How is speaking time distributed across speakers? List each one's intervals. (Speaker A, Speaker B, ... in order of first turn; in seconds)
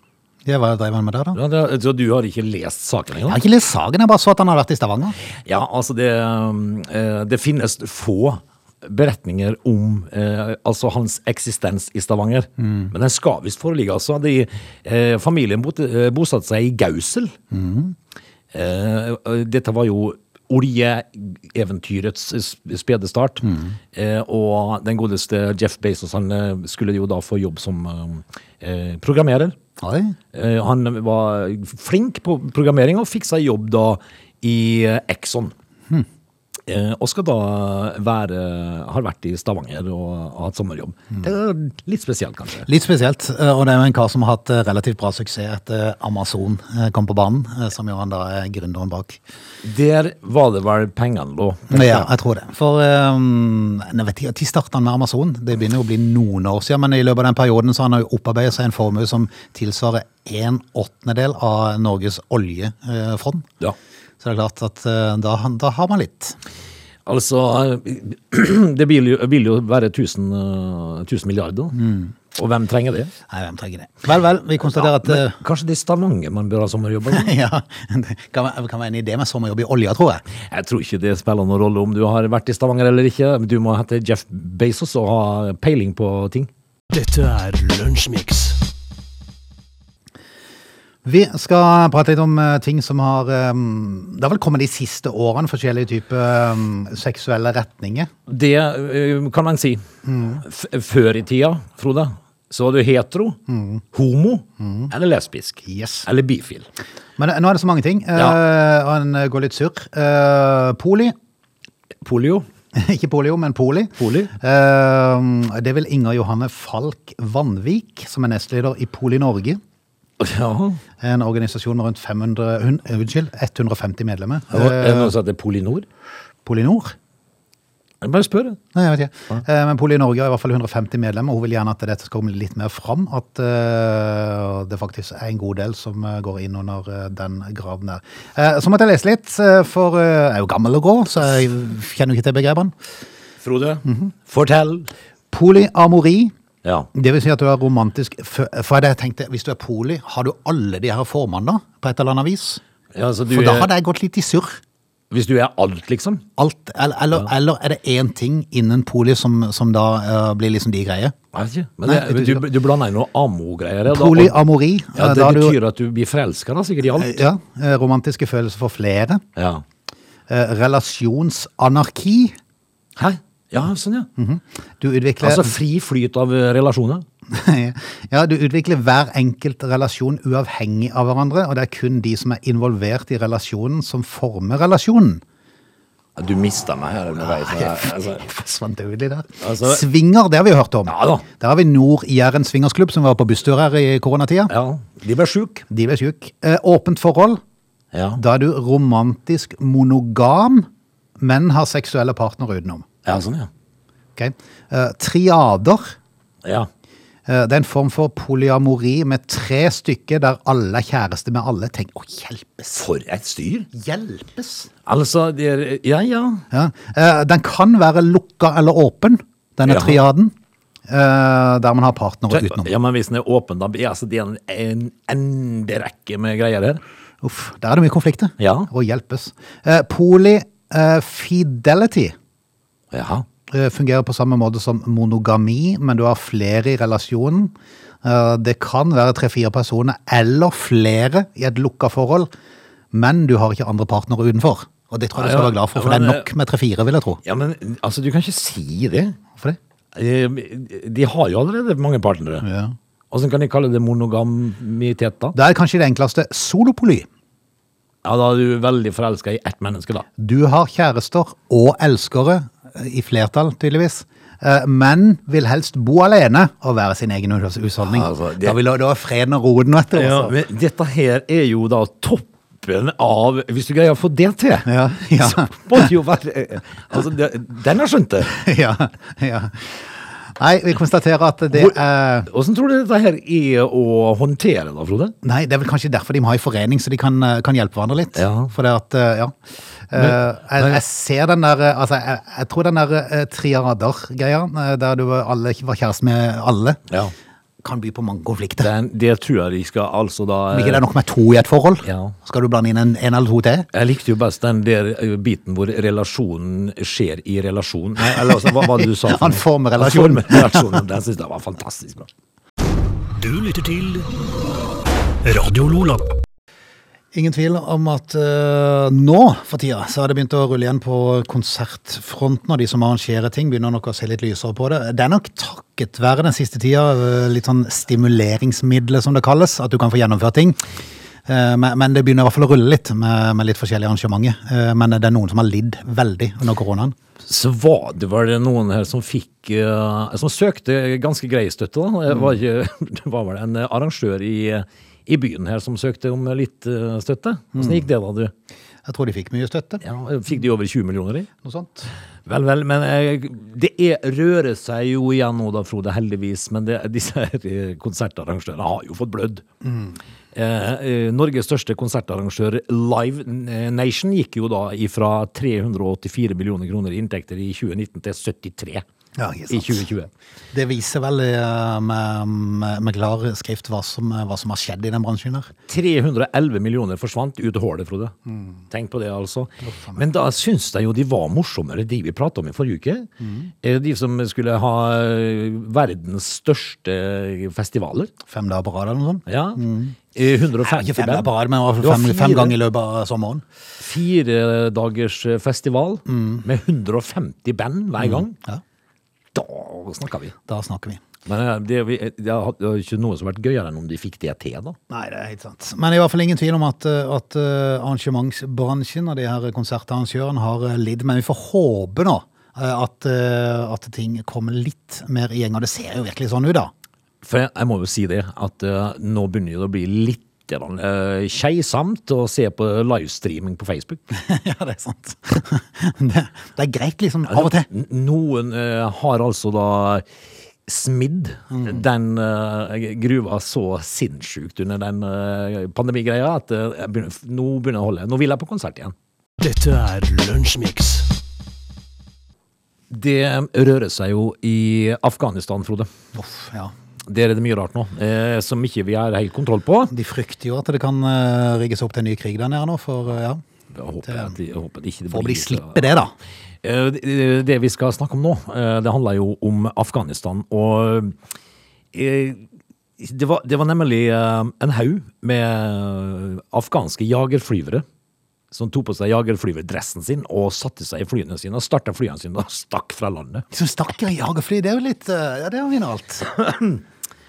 Speaker A: 0.5-1.4, 3.3-5.2, 12.6-12.9, 17.5-17.9, 23.4-23.8, 29.8-30.1, 42.6-49.2, 51.7-63.5, 64.2-66.4, 71.7-72.1, 73.3-75.4, 77.1-80.2, 91.0-98.1, 100.0-100.4, 103.5-103.8, 104.6-104.9, 105.6-106.0, 107.2-111.1, 112.7-119.6, 121.0-125.1, 126.4-126.9, 128.7-142.7, 143.8-144.1, 145.3-146.3, 146.9-152.6, 153.3-154.6, 156.4-161.1, 161.8-162.4, 163.9-165.6, 166.9-169.2, 170.3-172.4, 174.2-175.5, 177.3-185.2, 187.2-194.5, 195.7-197.4, 198.2-200.7, 201.2-202.8, 204.2-205.9, 207.3-212.8, 213.7-214.7, 216.5-220.3, 220.9-222.7, 227.2-232.1, 233.5-242.3, 242.9-247.2, 252.4-252.7, 255.3-257.1, 260.2-270.3, 274.6-275.9, 278.2-282.3, 285.2-289.3, 289.9-296.8, 297.6-298.7, 300.5-303.7, 308.1-310.8, 317.1-330.6, 331.3-336.9, 347.6-347.9, 348.9-349.8, 351.4-351.9, 359.6-359.9, 369.2-369.9, 370.5-375.5, 379.6-380.0, 383.2-383.5, 388.2-389.9, 390.6-393.4, 396.1-396.4, 398.0-398.6, 400.5-401.0, 404.9-416.7, 424.1-427.7, 431.5-431.8, 446.1-446.7, 449.9-453.4, 454.1-454.3, 455.1-456.1, 473.5-476.3
Speaker B: 1.3-3.4, 5.4-17.3, 18.5-29.6, 30.3-35.5, 36.6-42.7, 49.6-52.1, 67.0-71.8, 72.3-73.1, 74.6-77.3, 80.5-86.5, 98.3-99.8, 100.4-103.4, 103.9-106.7, 112.0-112.5, 114.0-114.3, 120.2-120.8, 124.5-125.9, 128.0-128.6, 143.4-144.9, 146.6-146.9, 152.9-153.7, 155.1-156.2, 161.3-164.4, 164.9-167.2, 169.3-169.6, 172.9-174.1, 175.2-177.0, 186.2-188.2, 189.4-189.8, 190.8-191.2, 194.5-195.7, 197.9-198.2, 203.0-203.5, 206.4-206.7, 212.7-213.7, 214.8-216.4, 219.7-220.0, 222.3-226.8, 228.4-228.7, 232.9-233.2, 245.2-246.3, 247.2-249.2, 249.9-252.5, 253.1-255.3, 258.0-260.1, 267.8-268.6, 269.9-278.3, 281.5-285.1, 288.1-288.5, 289.9-290.8, 296.9-297.1, 298.6-300.8, 301.8-302.1, 303.7-312.1, 337.2-348.3, 349.8-351.3, 352.2-359.4, 360.3-368.8, 369.5-370.1, 375.7-378.1, 378.7-383.1, 383.6-388.1, 389.3-392.6, 393.8-398.4, 399.3-400.3, 401.2-404.8, 417.2-424.0, 427.3-430.0, 430.6-438.9, 442.9-445.9, 447.1-449.9, 453.7-455.8, 456.6-461.1, 461.9-462.4, 463.0-467.9, 468.5-473.4, 476.4-476.7
Speaker C: 86.9-88.6, 313.1-314.1, 315.2-316.1, 439.4-441.1